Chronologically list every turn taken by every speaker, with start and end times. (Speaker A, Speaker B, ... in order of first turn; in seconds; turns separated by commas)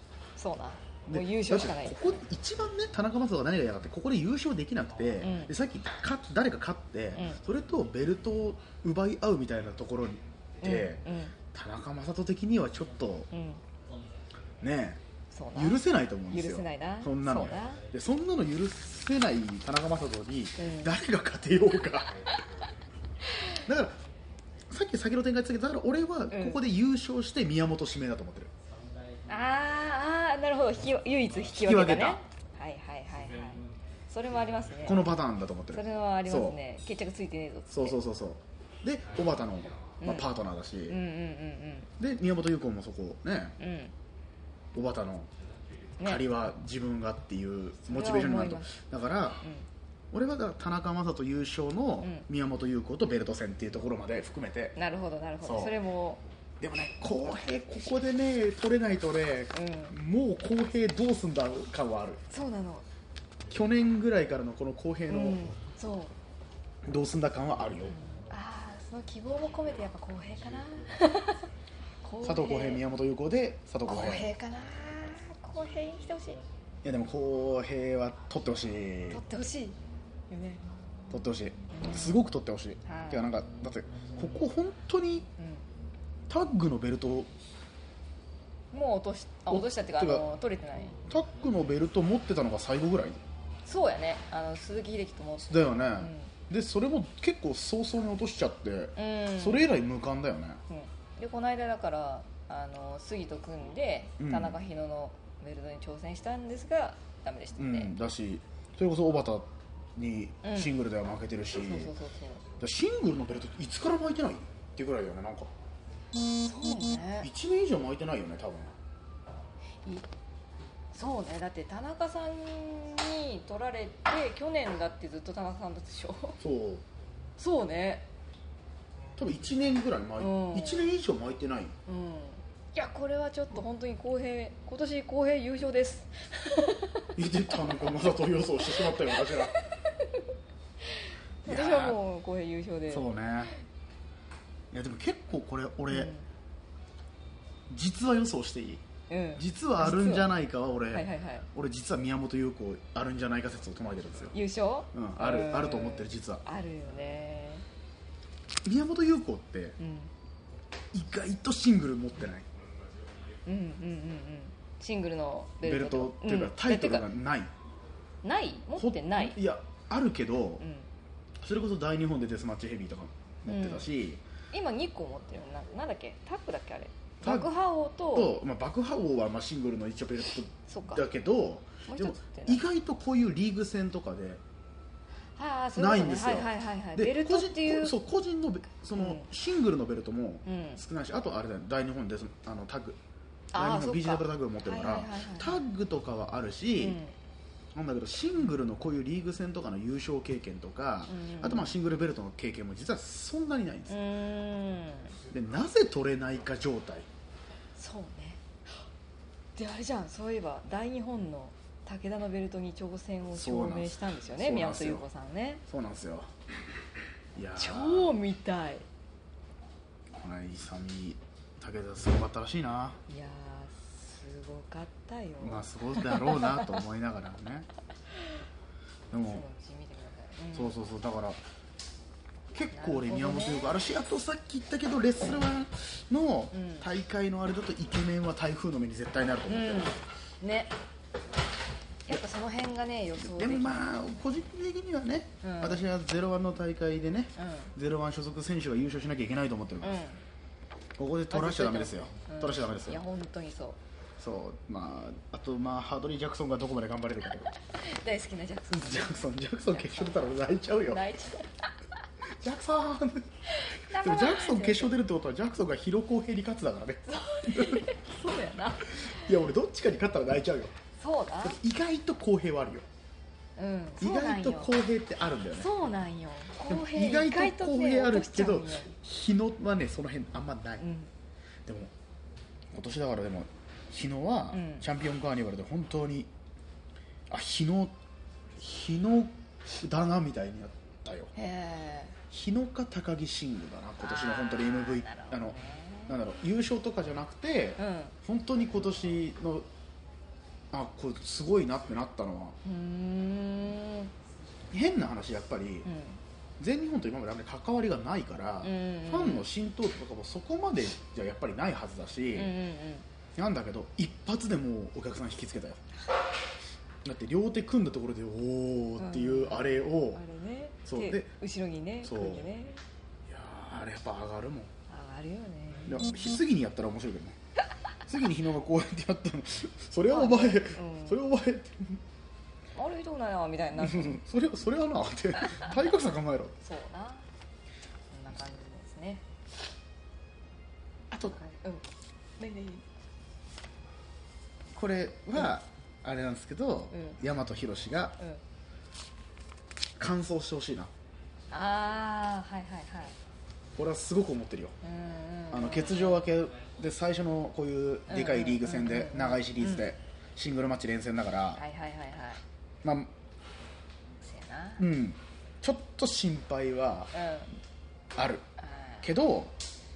Speaker A: 0.4-2.1, Speaker B: 1.1-13.3, Speaker A: 5.2-5.5, Speaker A: 7.1-7.4, Speaker A: 10.6-11.3, Speaker A: 13.3-13.6, Speaker B: 14.6-15.0, Speaker A: 15.3-17.8, Speaker B: 15.5-22.4, Speaker A: 20.6-20.9, Speaker B: 23.6-24.0, Speaker B: 24.7-28.5, Speaker A: 26.3-26.6, Speaker A: 29.3-35.1, Speaker B: 31.5-32.2, Speaker B: 34.8-36.6, Speaker A: 35.7-38.0, Speaker B: 37.7-41.0, Speaker A: 40.0-40.3, Speaker A: 40.9-41.9, Speaker B: 42.0-43.5, Speaker A: 43.6-43.9, Speaker B: 44.7-45.3, Speaker A: 46.0-46.2, Speaker B: 46.0-49.4, Speaker A: 47.9-48.7, Speaker B: 50.1-54.8, Speaker A: 54.8-56.2, Speaker B: 55.4-55.8, Speaker B: 56.6-62.2, Speaker A: 59.5-59.9, Speaker A: 62.3-62.8, Speaker B: 63.5-65.5, Speaker A: 65.1-66.1, Speaker B: 66.8-68.0, Speaker A: 67.9-71.4, Speaker A: 72.0-72.8, Speaker B: 72.2-74.3, Speaker A: 73.8-76.4, Speaker B: 76.8-79.2, Speaker A: 79.1-79.8, Speaker A: 80.3-80.6, Speaker B: 81.1-85.3, Speaker A: 81.7-82.2, Speaker A: 82.8-83.2, Speaker A: 85.4-85.6, Speaker B: 86.3-87.3, Speaker A: 88.7-91.0, Speaker B: 89.5-90.2, Speaker B: 91.0-93.2, Speaker A: 93.6-96.3, Speaker B: 95.5-100.6, Speaker A: 99.0-99.7, Speaker A: 100.7-107.9, Speaker B: 104.2-104.6, Speaker B: 107.6-111.9, Speaker A: 110.4-110.8, Speaker A: 111.6-112.4, Speaker B: 112.6-115.5, Speaker A: 116.3-117.3, Speaker B: 117.2-118.7, Speaker A: 120.9-126.4, Speaker B: 126.4-126.8, Speaker A: 127.4-128.1, Speaker B: 129.2-131.7, Speaker A: 130.2-130.9, Speaker A: 131.8-137.2, Speaker B: 137.2-139.6, Speaker A: 138.6-140.1, Speaker A: 140.8-143.1, Speaker B: 141.4-142.0, Speaker B: 142.9-143.5, Speaker B: 144.7-146.1, Speaker A: 145.9-146.2, Speaker B: 147.7-148.8, Speaker A: 149.1-150.3, Speaker B: 149.4-154.4, Speaker A: 150.9-151.5, Speaker A: 154.3-157.6, Speaker B: 154.9-156.4, Speaker B: 158.6-159.8, Speaker A: 159.8-160.1, Speaker B: 160.9-162.4, Speaker A: 163.4-167.1, Speaker B: 165.6-167.5, Speaker A: 168.2-169.4, Speaker B: 168.8-170.6, Speaker A: 170.6-170.9, Speaker B: 171.4-174.2, Speaker A: 173.5-173.9, Speaker A: 174.5-178.3, Speaker B: 177.2-177.5, Speaker B: 178.1-184.4, Speaker A: 180.7-181.0, Speaker A: 181.8-182.6, Speaker A: 185.3-187.9, Speaker B: 185.7-193.0, Speaker A: 188.9-189.2, Speaker A: 190.4-190.8, Speaker A: 193.5-195.6, Speaker B: 193.5-197.0, Speaker A: 196.8-197.1, Speaker B: 197.7-204.0, Speaker A: 201.1-201.7, Speaker A: 203.9-205.2, Speaker B: 205.3-207.1, Speaker A: 207.8-208.4, Speaker A: 209.6-215.6, Speaker B: 213.3-215.1, Speaker B: 215.7-216.3, Speaker B: 217.3-218.1, Speaker A: 217.6-218.8, Speaker B: 220.1-223.0, Speaker A: 223.1-226.8, Speaker B: 225.4-227.7, Speaker B: 229.1-229.4, Speaker A: 229.2-230.8, Speaker B: 230.5-231.4, Speaker B: 232.5-240.0, Speaker A: 232.7-233.7, Speaker A: 236.5-236.9, Speaker A: 239.5-240.7, Speaker A: 242.1-243.8, Speaker B: 243.2-250.0, Speaker A: 245.4-245.8, Speaker A: 247.4-247.7, Speaker A: 249.8-250.2, Speaker B: 251.0-253.0, Speaker A: 251.3-253.8, Speaker B: 254.2-257.5, Speaker A: 257.7-260.2, Speaker B: 258.7-261.1, Speaker A: 260.9-261.6, Speaker B: 262.4-263.3, Speaker A: 263.5-264.9, Speaker B: 263.8-267.9, Speaker A: 267.1-269.3, Speaker B: 268.9-270.8, Speaker A: 271.0-271.6, Speaker B: 271.4-272.9, Speaker A: 273.6-274.8, Speaker B: 274.0-275.7, Speaker A: 275.5-278.9, Speaker B: 276.7-280.8, Speaker A: 280.8-281.1, Speaker B: 281.6-281.9, Speaker B: 282.7-286.3, Speaker A: 284.5-284.8, Speaker B: 287.3-287.9, Speaker B: 288.6-291.3, Speaker A: 291.3-292.2, Speaker B: 292.3-299.7, Speaker A: 294.0-296.2, Speaker A: 297.8-298.1, Speaker B: 300.7-302.6, Speaker A: 302.6-304.1, Speaker B: 304.7-305.9, Speaker A: 305.8-306.2, Speaker B: 306.6-312.5, Speaker A: 308.6-309.5, Speaker A: 312.3-313.0, Speaker B: 313.4-315.8, Speaker B: 317.0-320.2, Speaker A: 319.0-322.8, Speaker B: 320.9-321.3, Speaker B: 322.0-322.5, Speaker B: 323.2-324.7, Speaker A: 324.9-326.0, Speaker B: 325.9-327.4, Speaker B: 328.1-332.0, Speaker A: 330.1-331.2, Speaker A: 332.8-334.2, Speaker B: 333.8-336.6, Speaker A: 336.6-337.2, Speaker A: 338.1-339.2, Speaker A: 341.1-341.8, Speaker A: 342.4-342.8, Speaker B: 344.7-348.2, Speaker A: 346.9-347.2, Speaker B: 350.0-350.9, Speaker A: 351.5-353.1, Speaker B: 353.8-354.7, Speaker A: 354.8-356.3, Speaker B: 355.5-361.6, Speaker A: 358.1-359.9, Speaker A: 361.6-362.4, Speaker B: 362.8-363.1, Speaker A: 364.2-364.8, Speaker B: 364.8-367.1, Speaker A: 367.1-367.5, Speaker B: 368.1-368.4, Speaker A: 368.6-369.1, Speaker B: 369.0-369.5